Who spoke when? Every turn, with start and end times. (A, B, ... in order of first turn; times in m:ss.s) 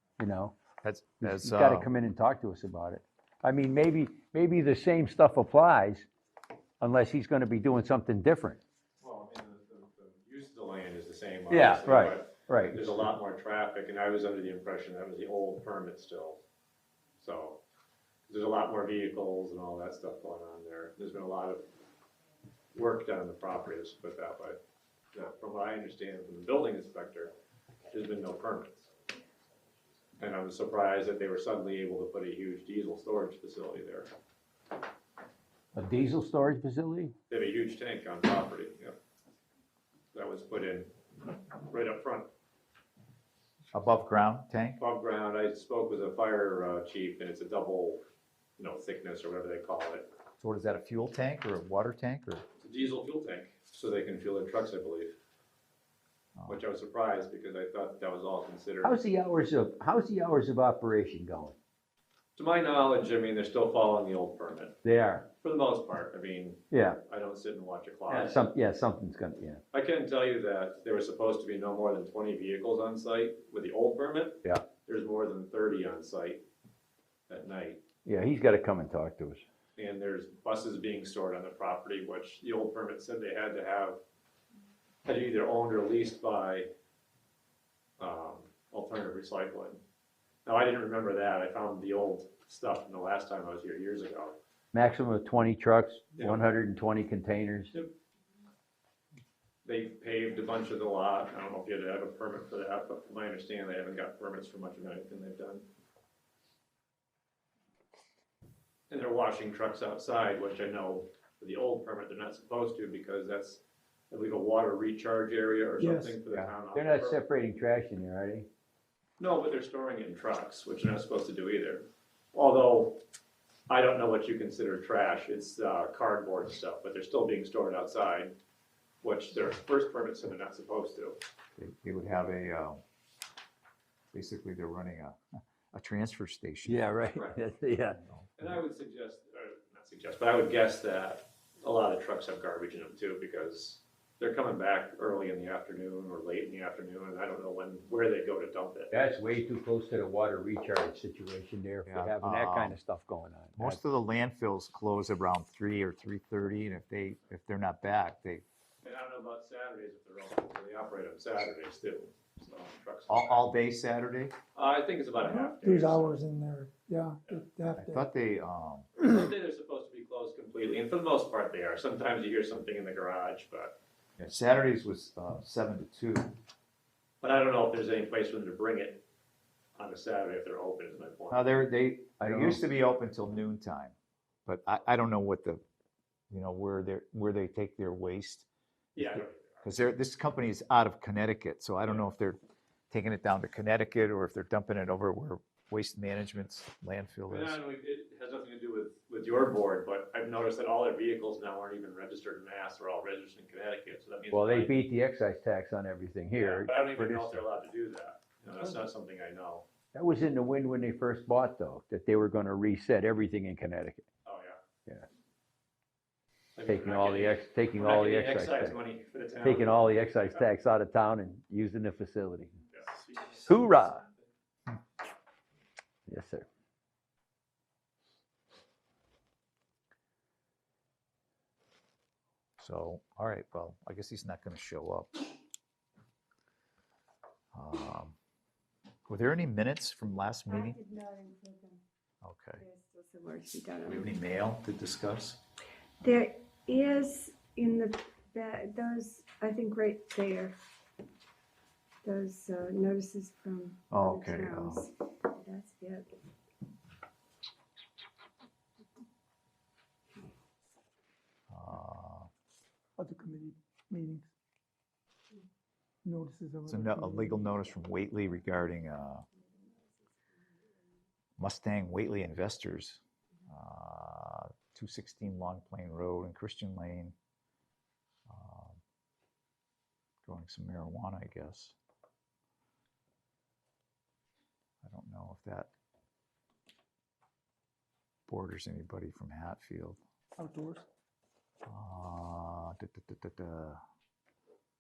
0:00.2-0:00.6 A
0:00.8-0:01.9 B
0:01.2-0:06.1 A
0:06.8-0:08.6 A
0:09.0-0:16.4 C
0:11.5-0:12.9 A
0:17.2-0:17.6 C
0:18.3-0:21.7 C
0:22.7-0:24.6 C
0:25.1-0:27.3 C
0:27.9-0:28.9 C
0:30.2-0:34.1 C
0:35.7-0:37.1 A
0:37.3-0:39.0 C
0:40.1-0:40.9 C
0:41.6-0:42.3 C
0:43.7-0:44.8 B
0:44.8-0:48.0 C
0:48.6-0:50.1 C
0:50.4-0:52.4 B
0:52.6-0:55.1 C
0:56.5-0:59.0 C
0:58.8-1:01.6 A
1:02.4-1:04.8 C
1:04.8-1:05.2 A
1:05.4-1:08.4 C
1:06.7-1:07.0 A
1:08.1-1:09.6 A
1:09.7-1:16.4 C
1:17.3-1:17.8 C
1:18.0-1:19.4 A
1:19.8-1:24.0 C
1:25.0-1:26.7 C
1:28.0-1:29.8 C
1:30.4-1:34.4 C
1:34.7-1:37.7 A
1:36.2-1:36.5 C
1:39.6-1:45.6 C
1:48.9-1:57.2 C
1:55.8-1:56.2 D
1:56.3-1:58.5 A
1:59.2-2:03.0 C
2:03.7-2:08.4 C
2:09.0-2:11.2 C
2:11.6-2:12.8 B
2:14.1-2:15.2 B
2:15.7-2:16.9 B
2:16.7-2:18.0 A
2:17.1-2:17.4 C
2:17.9-2:18.5 B
2:18.4-2:28.9 C
2:28.9-2:33.8 A
2:31.8-2:32.8 B
2:33.6-2:38.4 B
2:38.8-2:43.5 C
2:43.1-2:44.3 B
2:44.5-2:46.2 C
2:45.2-2:48.0 D
2:47.8-2:48.9 B
2:49.0-2:53.8 C
2:54.2-2:56.3 B
2:57.2-2:59.0 C
2:59.8-3:01.4 C
3:01.3-3:03.9 B
3:02.2-3:02.6 A
3:04.4-3:05.6 B
3:06.3-3:12.4 B
3:09.0-3:09.6 C
3:12.9-3:17.6 B
3:17.3-3:24.8 C
3:24.3-3:27.4 A
3:26.4-3:29.7 C
3:29.9-3:34.0 A
3:34.2-3:34.6 C
3:36.6-3:40.4 C
3:36.7-3:38.8 A
3:39.4-3:42.6 A
3:42.7-3:44.2 C
3:43.4-3:44.0 A
3:46.1-3:46.4 A
3:52.6-3:55.2 B
3:57.5-3:58.2 B
3:59.1-4:00.8 B
4:00.5-4:01.8 E
4:02.2-4:02.6 B
4:02.6-4:04.1 E
4:03.9-4:05.4 B
4:06.0-4:10.5 E
4:12.0-4:16.1 E
4:13.9-4:14.9 B
4:21.5-4:22.3 B
4:23.0-4:24.3 D
4:26.0-4:27.4 D
4:26.7-4:29.2 B
4:29.4-4:30.2 E
4:31.4-4:37.1 B
4:38.3-4:38.8 B
4:40.2-4:41.8 B
4:44.8-4:45.7 B
4:48.3-4:50.0 B
4:50.4-4:50.8 D
4:51.6-4:53.8 B